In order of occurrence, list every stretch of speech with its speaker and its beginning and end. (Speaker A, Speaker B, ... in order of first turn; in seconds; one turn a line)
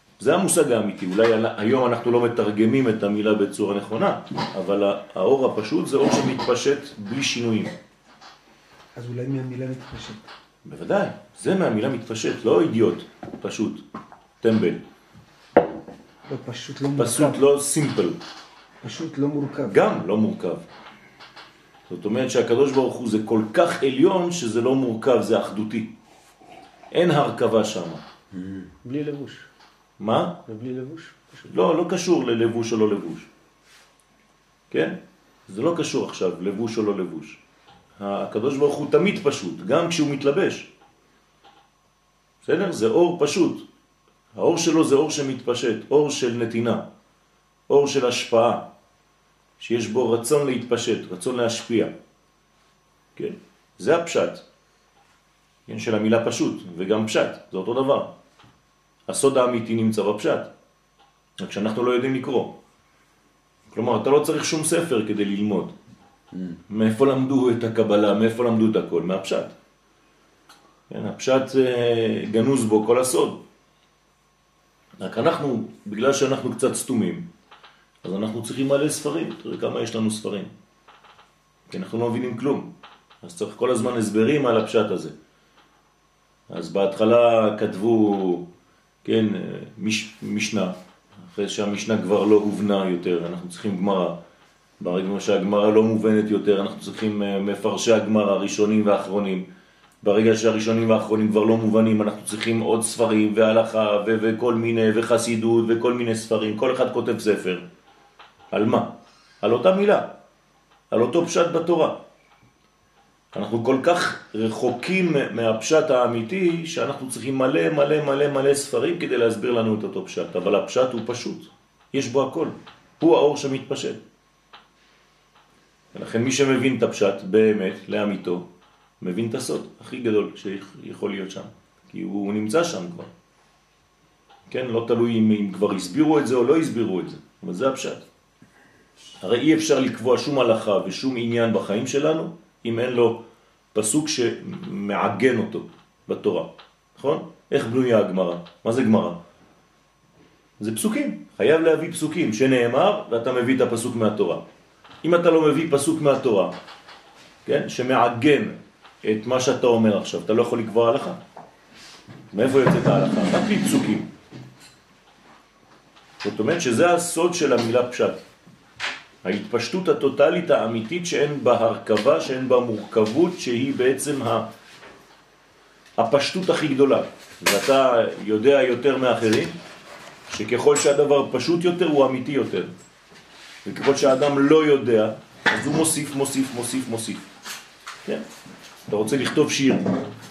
Speaker A: 0.2-7.7
Speaker B: 8.9-10.3
Speaker A: 10.7-13.8
Speaker A: 14.4-14.8
Speaker B: 16.3-17.4
Speaker A: 17.0-18.2
Speaker B: 18.8-19.9
Speaker A: 19.7-20.6
Speaker A: 21.9-25.9
Speaker A: 26.9-28.0
Speaker C: 28.4-29.5
Speaker A: 30.0-30.4
Speaker C: 30.5-31.5
Speaker A: 31.5-33.3
Speaker A: 34.7-37.4
Speaker A: 38.0-40.7
Speaker A: 42.4-43.6
Speaker A: 44.4-46.9
Speaker A: 47.7-48.7
Speaker A: 49.6-51.9
Speaker A: 53.2-54.4
Speaker A: 55.7-58.1
Speaker A: 59.1-60.5
Speaker A: 61.4-62.5
Speaker A: 63.7-65.7
Speaker A: 66.7-69.5
Speaker A: 70.9-73.4
Speaker A: 75.0-77.3
Speaker A: 78.0-80.5
Speaker A: 81.7-82.7
Speaker A: 83.2-85.1
Speaker A: 86.5-88.5
Speaker A: 89.0-94.2
Speaker A: 94.8-99.5
Speaker A: 100.0-107.7
Speaker A: 108.5-110.1
Speaker A: 110.9-112.0
Speaker A: 113.3-124.0
Speaker A: 125.9-128.5
Speaker A: 129.0-133.1
Speaker A: 134.5-138.0
Speaker A: 139.2-143.2
Speaker A: 143.7-149.2
Speaker A: 150.6-154.4
Speaker A: 155.0-156.6
Speaker A: 157.5-161.2
Speaker A: 162.3-164.1
Speaker A: 166.2-168.2
Speaker A: 169.2-174.5
Speaker A: 176.0-179.6
Speaker A: 180.3-182.7
Speaker A: 183.7-187.3
Speaker A: 188.9-189.9